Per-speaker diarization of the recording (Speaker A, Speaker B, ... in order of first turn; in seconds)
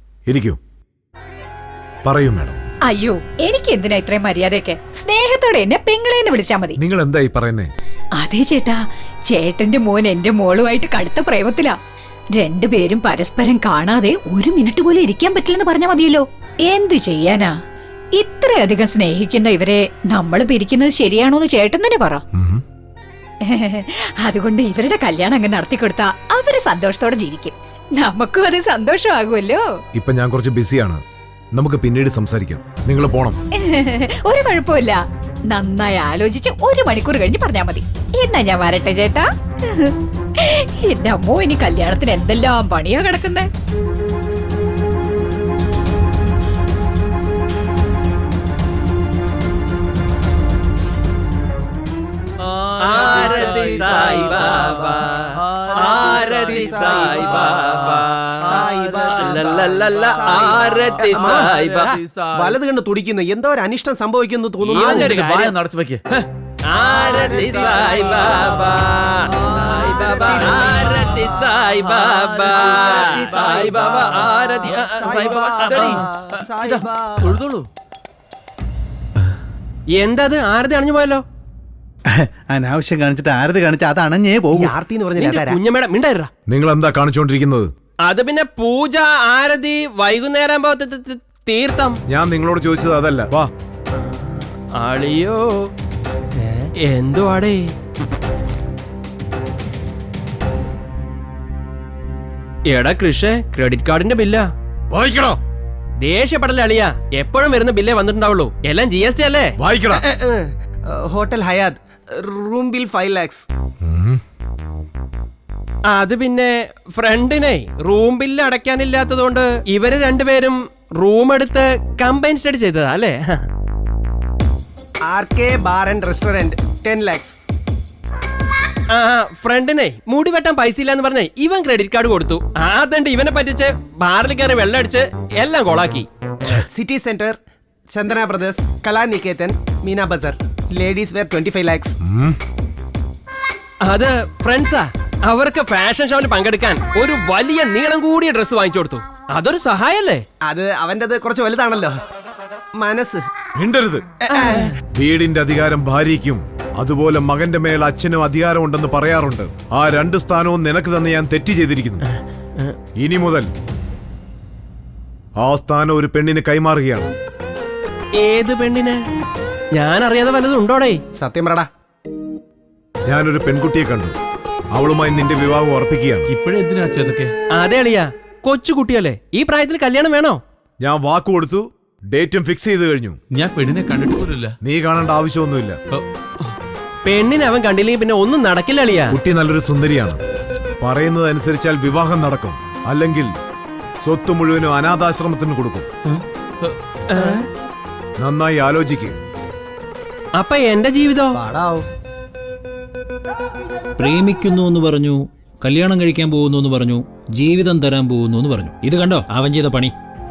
Speaker A: 0.3-0.6, 2.0-2.6, 6.8-7.7, 22.4-22.6, 29.9-31.0, 31.5-33.4, 86.5-87.7, 92.1-93.5, 104.9-105.4, 109.6-110.0, 113.8-114.2, 142.1-142.4, 153.6-154.1, 154.9-162.0, 163.0-163.5, 165.4-167.1, 173.1-174.2, 174.7-176.3, 180.8-183.2, 184.6-185.8, 189.1-190.2, 190.8-193.3, 194.0-195.9, 198.2-199.2
Speaker B: 2.9-6.8, 8.2-11.8, 12.4-17.6, 18.2-22.2, 23.5-29.7, 33.6-43.5
Speaker C: 52.4-62.6, 64.6-66.3, 69.5-71.0, 71.8-73.8, 75.2-77.7, 176.3-177.3, 183.3-184.6, 185.9-186.5, 196.1-196.8
Speaker D: 52.8-55.3, 55.8-58.4, 59.2-61.9, 64.8-65.5, 66.7-75.9, 80.0-81.2, 85.2-86.3, 88.1-92.0, 94.0-95.5, 96.8-97.7, 102.7-104.5, 106.0-109.6, 115.9-123.5, 128.9-136.1, 143.8-150.2, 154.3-154.7, 162.0-162.8, 168.2-169.0, 169.8-171.0, 177.6-180.4, 187.1-189.2, 197.1-197.5, 200.4-201.4
Speaker E: 53.0-54.7, 55.7-57.5, 58.5-61.5, 62.3-65.2, 67.0-68.5, 69.8-70.7, 72.5-74.2, 74.8-77.4, 84.5-85.6, 109.9-113.5, 125.1-127.4, 136.7-137.4, 137.9-142.0, 150.5-152.0, 152.8-153.2, 154.2-154.7, 171.2-171.7, 201.4-201.8
Speaker F: 82.2-84.7
Speaker G: 204.0-209.9